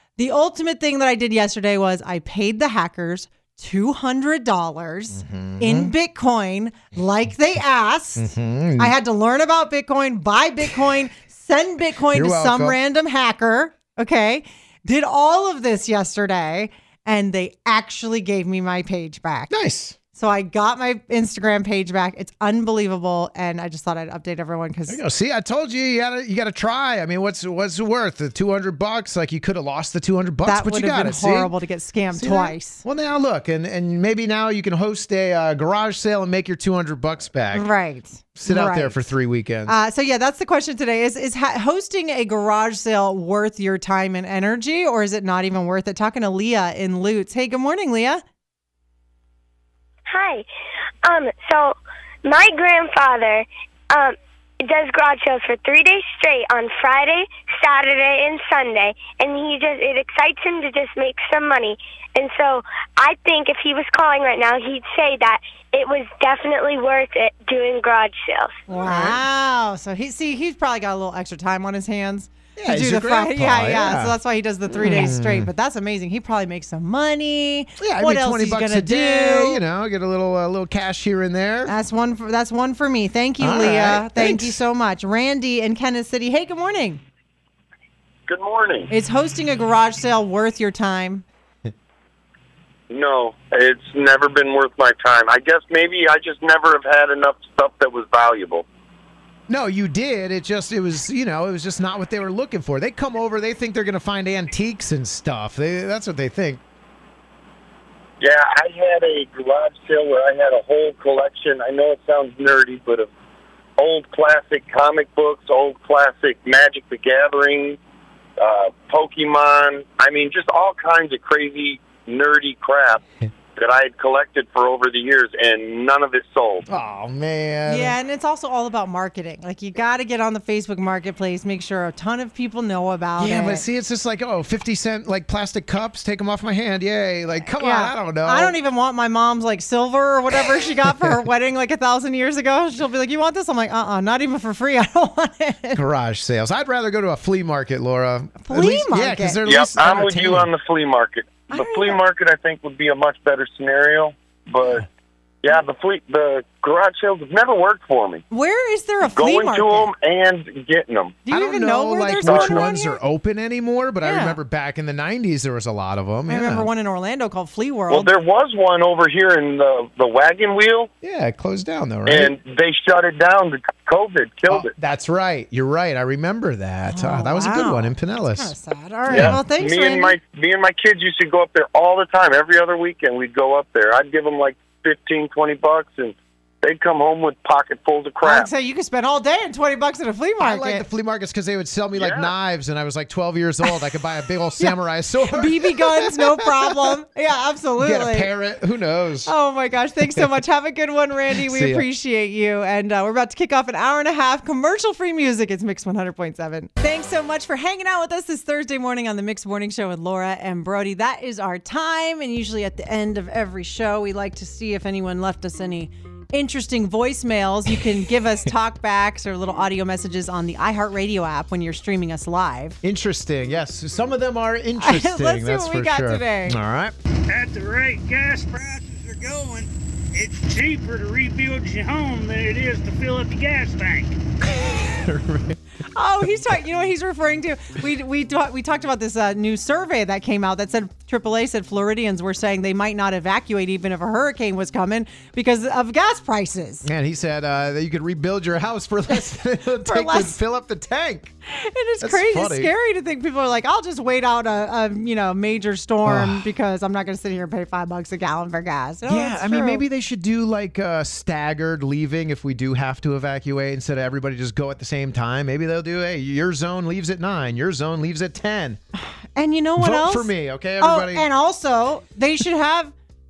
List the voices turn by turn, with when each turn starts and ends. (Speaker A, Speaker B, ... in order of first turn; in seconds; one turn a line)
Speaker A: 0.2-19.5
Speaker B: 5.2-5.9
Speaker B: 8.2-8.9
Speaker B: 12.1-12.8
Speaker B: 19.5-20.0
Speaker A: 20.1-25.0
Speaker B: 24.9-31.5
Speaker A: 30.4-32.8
Speaker B: 32.1-37.7
Speaker A: 37.5-39.0
Speaker B: 38.4-39.8
Speaker A: 39.7-48.2
Speaker C: 50.1-50.5
Speaker C: 51.0-68.6
Speaker A: 68.7-79.6
Speaker B: 68.8-69.2
Speaker B: 72.6-74.2
Speaker B: 74.7-75.5
Speaker B: 77.8-81.8
Speaker A: 81.7-87.0
Speaker B: 83.4-84.6
Speaker D: 88.3-88.9
Speaker A: 88.9-91.2
Speaker D: 92.9-98.7
Speaker B: 99.5-106.6
Speaker D: 108.2-113.1
Speaker D: 113.8-117.8
Speaker D: 118.4-123.0
Speaker D: 123.6-126.7
Speaker B: 126.7-128.0
Speaker A: 127.7-133.6
Speaker B: 133.2-138.6
Speaker A: 137.6-145.8
Speaker B: 145.8-150.5
Speaker A: 148.4-149.4
Speaker D: 149.4-154.9
Speaker A: 151.5-152.0
Speaker D: 155.4-158.2
Speaker A: 158.3-159.9
Speaker D: 159.1-161.2
Speaker A: 161.3-163.0
Speaker B: 161.3-166.7
Speaker D: 162.2-162.6
Speaker A: 164.0-164.4
Speaker A: 166.3-168.1
Speaker D: 167.9-170.9
Speaker B: 171.0-172.4
Speaker D: 172.1-174.7
Speaker B: 174.5-178.5
Speaker A: 176.9-180.2
Speaker B: 179.1-179.4
Speaker D: 179.1-188.5
Speaker A: 188.2-190.8
Speaker B: 190.4-196.8
Speaker A: 195.3-198.3
Speaker B: 197.8-199.3
Speaker A: 199.3-222.8
Speaker B: 200.0-200.3
Speaker B: 201.3-201.9
Speaker B: 222.8-227.0
Speaker A: 224.8-226.6
Speaker E: 227.3-234.2
Speaker B: 234.5-235.6
Speaker A: 235.9-246.9
Speaker B: 246.8-251.3
Speaker A: 249.9-250.4
Speaker A: 251.6-259.9
Speaker B: 252.0-252.7
Speaker B: 256.0-256.5
Speaker B: 259.1-268.8
Speaker A: 269.0-272.9
Speaker B: 269.8-271.3